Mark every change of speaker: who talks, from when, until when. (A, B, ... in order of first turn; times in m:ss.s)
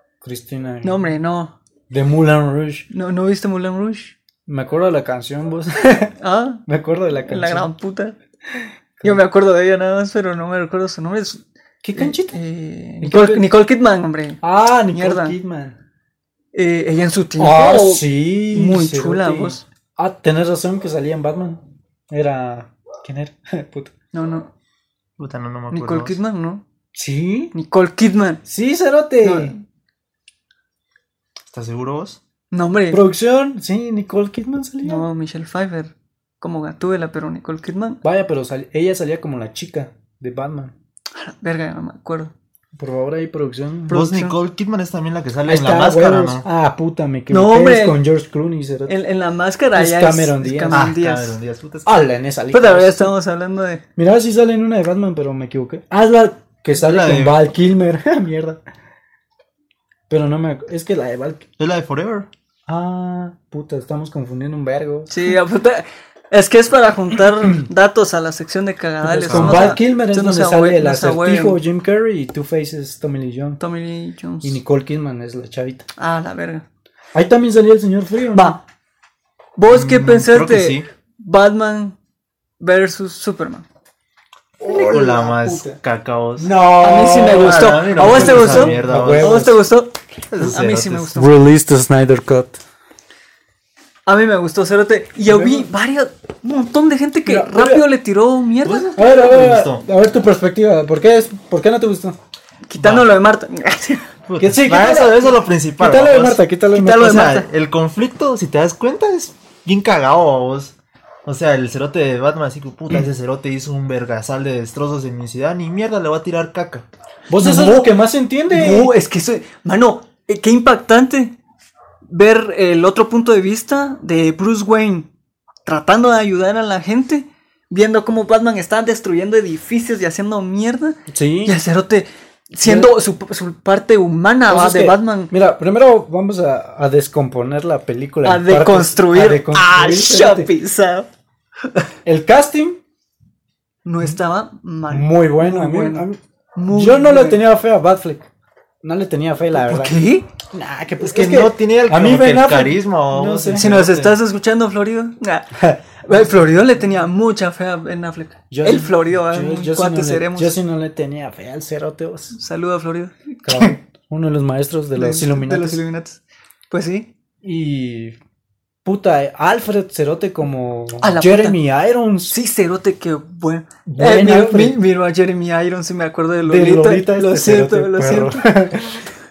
0:00.2-0:01.0 A
0:00.8-0:01.5 B
0:01.9-0:02.8 A
0:02.9-0:04.1 B
0:04.5-0:06.1 A
0:06.2-0:08.2 B
0:06.7-0:07.7 A
0:08.6-0:09.2 A
0:09.0-0:11.4 B
0:11.8-0:12.4 A
0:11.9-0:15.4 B
0:13.0-0:13.5 A
0:14.4-0:15.8 A
0:16.5-0:19.6 B
0:17.4-0:23.9 A
0:24.1-0:24.5 B
0:25.2-0:26.2 C
0:25.7-0:26.6 B
0:26.9-0:27.5 A
0:27.5-0:28.4 B
0:28.4-0:29.5 A
0:29.2-0:29.6 B
0:31.5-0:32.2 C
0:32.5-0:33.0 B
0:32.9-0:35.0 A
0:34.8-0:38.0 B
0:38.0-0:40.7 A
0:41.1-0:42.3 B
0:42.8-0:44.0 A
0:43.9-0:44.4 B
0:43.9-0:46.4 C
0:45.4-0:48.9 A
0:47.3-0:48.0 B
0:48.9-0:51.4 B
0:49.7-0:50.9 A
0:50.7-0:52.0 C
0:51.8-0:53.1 A
0:52.5-0:53.8 B
0:54.0-0:58.6 A
0:56.7-0:57.4 C
1:00.1-1:01.4 A
1:01.6-1:02.3 C
1:02.7-1:05.1 A
1:05.1-1:11.6 B
1:09.0-1:13.6 A
1:09.3-1:09.8 C
1:13.6-1:14.6 B
1:14.4-1:15.9 A
1:16.0-1:16.6 B
1:17.1-1:18.6 A
1:18.3-1:18.6 B
1:19.6-1:22.0 B
1:19.7-1:20.9 C
1:22.6-1:23.6 B
1:24.6-1:25.8 A
1:24.6-1:26.5 C
1:26.4-1:29.6 A
1:26.8-1:31.3 B
1:27.3-1:29.5 C
1:30.3-1:31.1 C
1:31.1-1:32.6 A
1:34.1-1:38.9 B
1:35.2-1:35.7 A
1:37.2-1:37.9 A
1:38.6-1:39.8 C
1:39.0-1:42.2 A
1:42.7-1:44.1 B
1:42.8-1:43.1 C
1:44.2-1:50.7 C
1:44.4-1:47.3 A
1:46.8-1:47.5 B
1:51.2-1:56.9 C
1:57.3-1:58.9 A
1:57.4-1:57.9 B
1:58.5-2:01.4 B
2:02.1-2:05.1 B
2:05.6-2:15.3 B
2:11.1-2:11.6 A
2:12.6-2:12.9 A
2:14.5-2:20.5 A
2:18.2-2:21.1 B
2:22.0-2:22.8 A
2:23.8-2:27.4 B
2:24.9-2:28.3 A
2:28.8-2:30.0 A
2:29.5-2:30.3 B
2:30.5-2:33.7 A
2:31.0-2:34.2 C
2:33.5-2:40.6 B
2:35.5-2:36.3 A
2:38.5-2:42.4 A
2:42.3-2:43.8 B
2:43.4-2:45.8 A
2:45.0-2:47.1 B
2:47.4-2:48.2 A
2:48.8-2:52.4 A
2:51.0-2:51.6 B
2:52.3-2:58.5 B
2:53.9-2:54.8 A
2:56.4-2:59.0 A